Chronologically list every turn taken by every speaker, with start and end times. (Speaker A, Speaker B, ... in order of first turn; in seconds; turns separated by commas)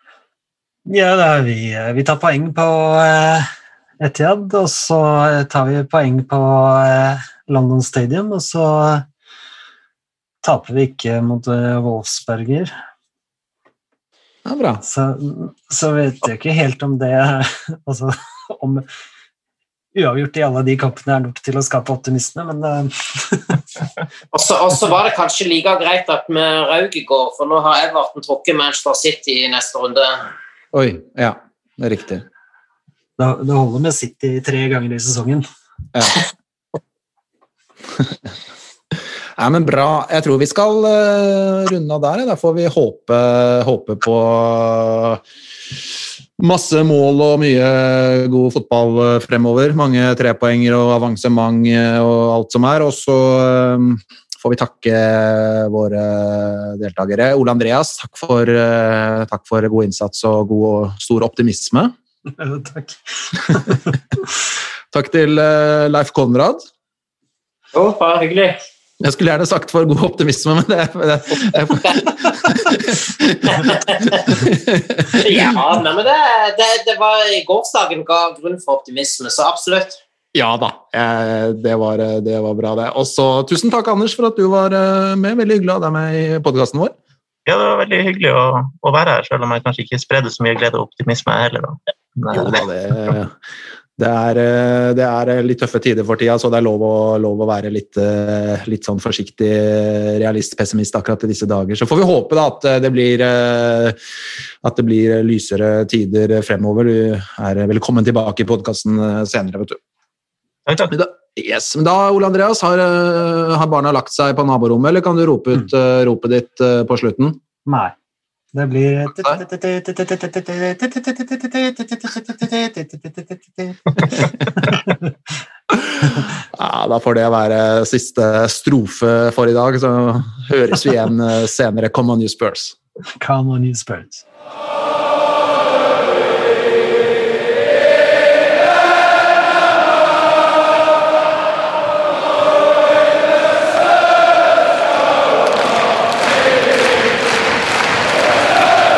Speaker A: 0.9-3.5, Speaker A: 4.0-9.1, Speaker A: 10.4-12.7, Speaker B: 14.5-14.8, Speaker A: 14.8-18.9, Speaker A: 19.9-23.6, Speaker C: 24.3-30.3, Speaker B: 30.7-32.2, Speaker A: 33.2-35.5, Speaker B: 35.9-36.2, Speaker B: 39.4-45.2, Speaker B: 46.4-61.9, Speaker A: 62.4-63.8, Speaker B: 64.9-66.6, Speaker C: 67.7-68.6, Speaker B: 69.0-75.6, Speaker C: 73.5-74.3, Speaker C: 75.2-80.0, Speaker B: 80.3-87.0, Speaker D: 87.5-92.6, Speaker B: 92.3-93.3, Speaker B: 94.0-104.0, Speaker B: 104.6-109.8, Speaker D: 110.7-110.9, Speaker B: 110.9-117.4, Speaker A: 117.7-117.9, Speaker A: 118.5-125.1, Speaker B: 125.8-132.8, Speaker A: 133.2-134.2